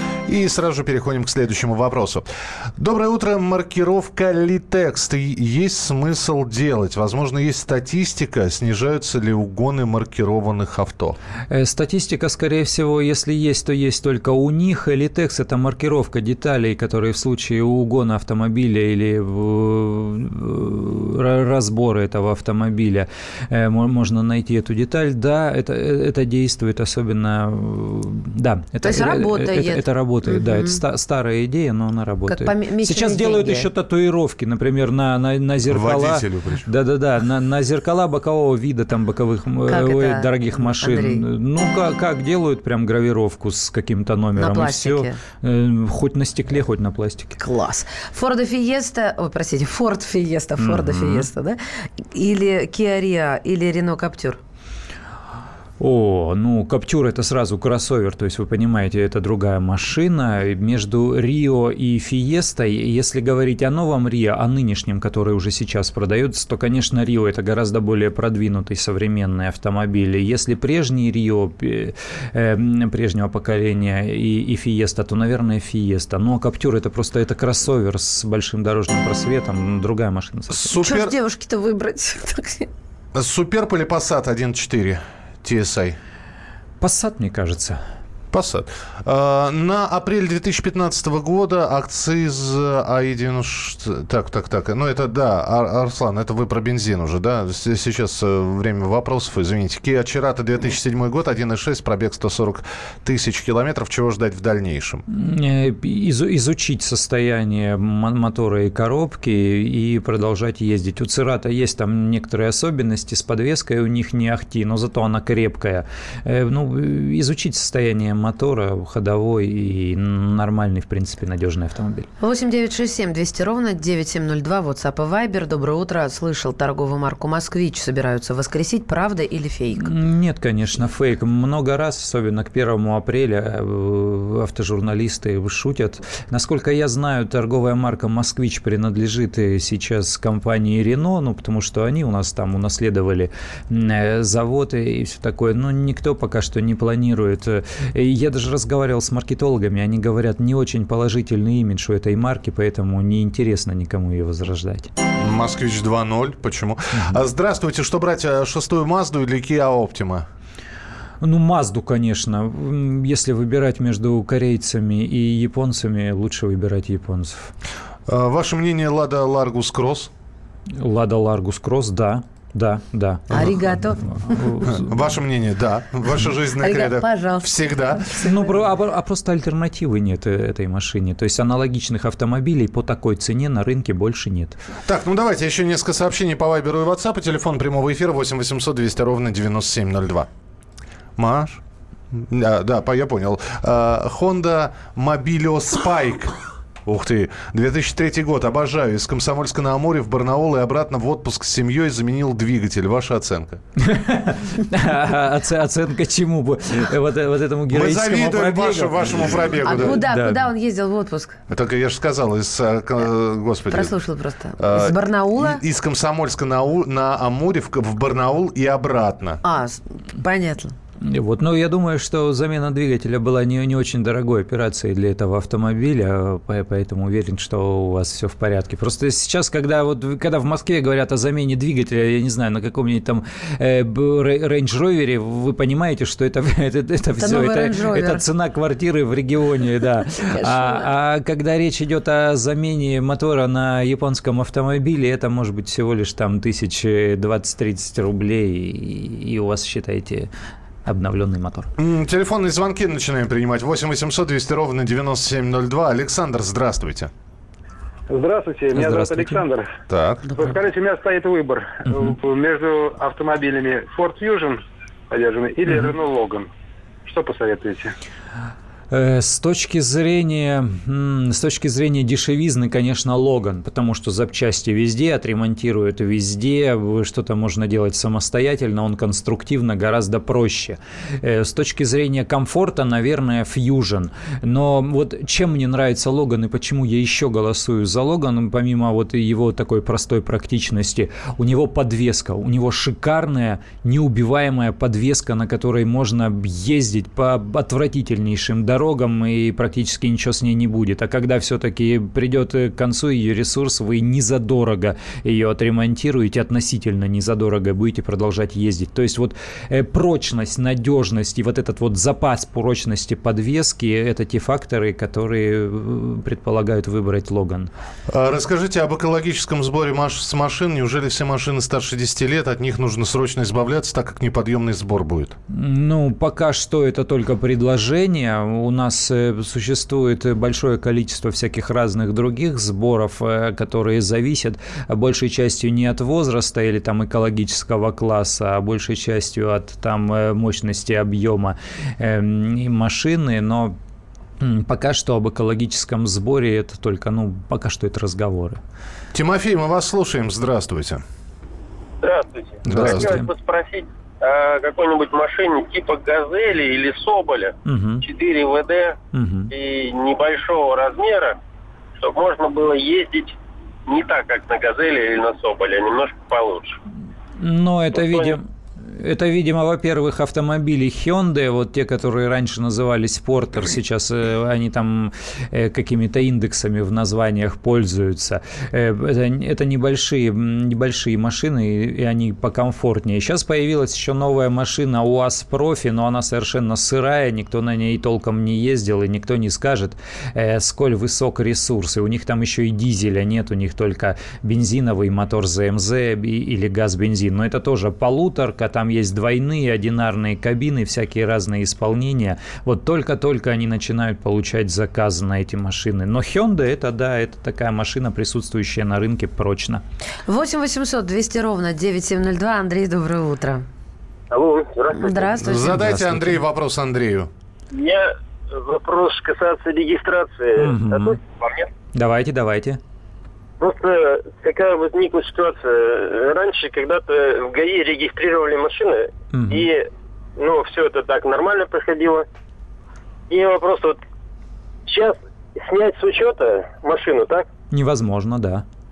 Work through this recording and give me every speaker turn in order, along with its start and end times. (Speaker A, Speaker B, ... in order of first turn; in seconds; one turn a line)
Speaker A: 0.3-11.2
Speaker B: 11.5-47.4
Speaker C: 28.8-30.8
Speaker C: 32.3-33.7
Speaker A: 35.7-36.7
Speaker C: 39.7-41.2
Speaker C: 44.4-45.2
Speaker C: 47.4-54.4
Speaker B: 50.6-51.3
Speaker B: 55.8-80.8
Speaker A: 80.5-81.1
Speaker C: 80.8-82.7
Speaker A: 83.1-86.0
Speaker B: 86.8-87.8
Speaker A: 88.3-105.0
Speaker B: 105.1-122.1
Speaker C: 122.2-129.9
Speaker B: 129.8-154.9
Speaker A: 155.2-160.3
Speaker B: 161.2-167.5
Speaker A: 168.1-170.1
Speaker B: 170.8-173.5
Speaker C: 173.3-174.6
Speaker B: 174.1-175.0
Speaker A: 174.6-178.1
Speaker C: 176.6-178.6
Speaker B: 178.2-184.6
Speaker A: 184.9-190.3
Speaker A: 191.2-191.6
Speaker A: 192.1-203.6
Speaker B: 203.8-210.5
Speaker A: 207.7-210.0
Speaker C: 209.6-211.4
Speaker A: 211.5-213.9
Speaker C: 213.7-215.6
Speaker A: 214.6-219.4
Speaker C: 219.4-220.8
Speaker B: 221.0-250.3
Speaker C: 237.2-238.2
Speaker C: 240.2-240.9
Speaker B: 250.8-251.7
Speaker A: 251.8-257.1
Speaker D: 258.1-259.7
Speaker B: 258.7-259.4
Speaker A: 259.9-260.4
Speaker D: 260.3-266.5
Speaker B: 265.7-265.9
Speaker D: 267.1-267.9
Speaker B: 268.9-317.7
Speaker A: 318.1-325.4
Speaker B: 325.5-343.8
Speaker B: 344.4-348.6
Speaker A: 349.1-351.0
Speaker E: 352.0-359.0
Speaker A: 352.7-353.2
Speaker B: 352.7-353.3
Speaker B: 357.7-358.0
Speaker B: 359.1-359.5
Speaker E: 359.5-361.4
Speaker E: 362.0-363.4
Speaker E: 363.9-366.8
Speaker B: 367.4-409.8
Speaker E: 368.1-368.3
Speaker C: 410.3-413.7
Speaker E: 414.3-415.4
Speaker C: 414.9-415.9
Speaker A: 415.4-417.3
Speaker B: 415.6-416.4
Speaker E: 417.7-421.7
Speaker B: 420.6-421.2
Speaker B: 421.9-422.8
Speaker E: 423.6-432.3
Speaker B: 429.3-429.7
Speaker E: 433.3-434.0
Speaker E: 434.9-437.5
Speaker B: 437.7-438.6